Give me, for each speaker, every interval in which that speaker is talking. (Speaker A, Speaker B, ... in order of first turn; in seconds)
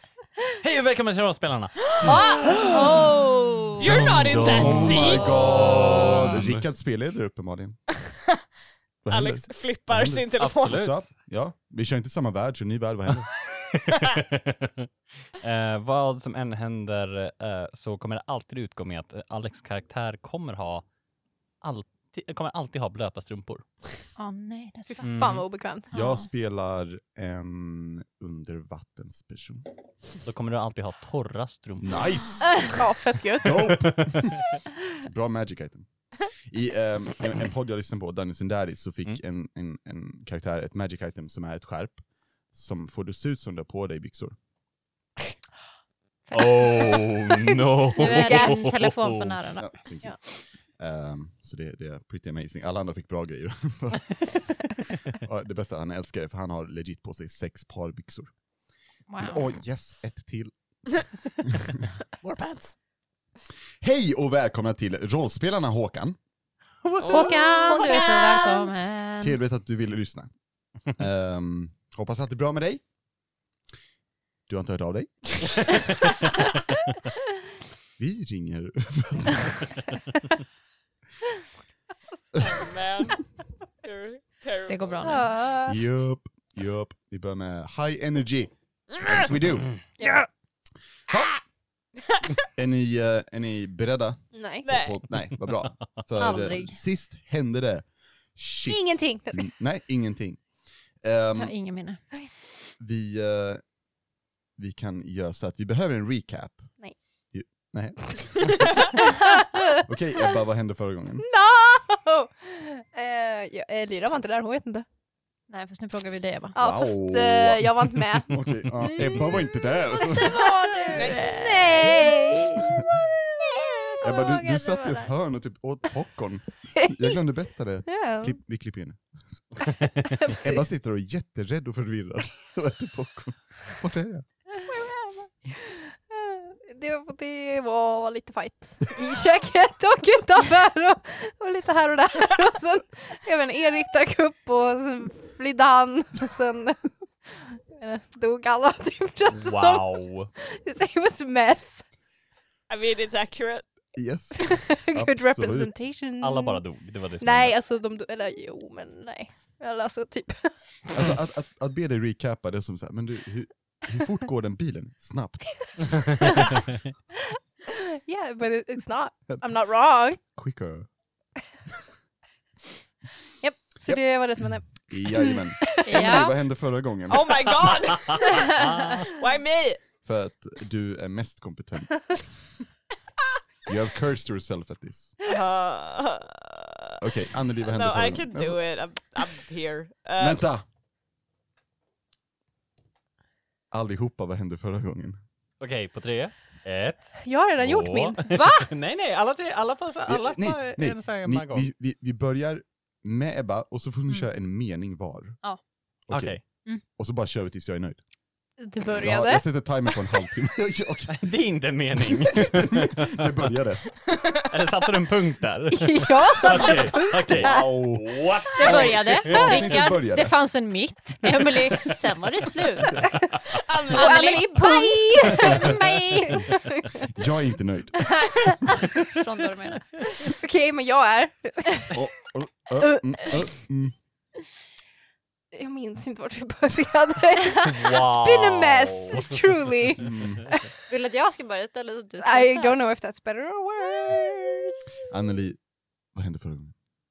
Speaker A: 0.6-2.8, 3.8-6.6, 10.4-11.1, 13.4-20.9, 21.6-23.6, 25.0-25.5, 30.2-32.5, 33.7-34.4, 46.3-49.4, 66.8-67.9, 149.3-150.3, 156.2-157.5, 195.6-201.7, 206.1-206.4, 211.2-213.3, 214.5-219.7, 237.7-240.0
Speaker B: 2.0-4.0, 5.0-6.3, 24.2-25.1, 25.9-26.3, 46.3-46.6, 47.9-49.7, 59.1-59.5, 67.1-69.4, 84.7-85.3, 96.2-96.8, 101.4-102.1, 115.5-116.6, 120.0-122.2, 123.8-125.1, 175.8-176.3, 198.2-198.7, 218.6-223.0, 223.9-226.6, 228.1-229.9, 240.9-242.8
Speaker C: 3.8-5.6, 9.1-10.8, 62.2-62.8, 67.0-68.6, 82.4-85.2, 94.6-95.0, 120.9-121.4, 152.7-153.8, 177.1-179.8, 185.2-186.6, 187.6-190.4, 214.1-214.5, 223.7-224.1
Speaker D: 4.3-7.8, 9.0-13.3, 25.9-29.7, 31.8-32.8, 33.4-34.5, 35.0-44.4, 49.6-58.3, 59.1-61.9, 63.8-66.2, 69.2-70.3, 70.8-72.8, 74.5-75.6, 78.0-79.8, 85.6-89.8, 92.5-100.4, 101.0-101.5, 102.8-103.6, 104.6-108.6, 109.8-111.3, 116.5-120.5, 124.0-129.4, 130.3-134.3, 153.9-155.8, 160.9-166.1, 169.3-169.6, 170.2-170.9, 173.8-177.7, 180.0-182.3, 183.7-185.2, 187.0-188.6, 190.2-190.6, 193.7-195.2, 200.1-205.4, 206.1-208.0, 209.0-211.3, 211.9-214.0, 217.3-220.3, 227.1-228.3, 231.9-233.9, 240.0-240.5, 245.1-245.6, 246.1-246.7
Speaker E: 24.9-25.9, 32.8-33.8, 46.9-48.7, 67.8-68.3, 85.0-85.8, 94.3-94.6, 98.7-99.5, 109.0-109.6, 111.2-114.8, 116.5-119.6, 120.2-122.8, 127.9-128.4, 130.2-130.6, 134.6-147.0, 147.7-151.8, 154.4-156.6, 157.2-160.6, 167.7-170.2, 173.4-176.1, 197.2-198.2, 208.6-209.4, 215.7-217.8, 218.6-218.9, 223.4-227.0, 230.2-232.0, 232.9-233.4, 235.5-240.7, 242.2-244.8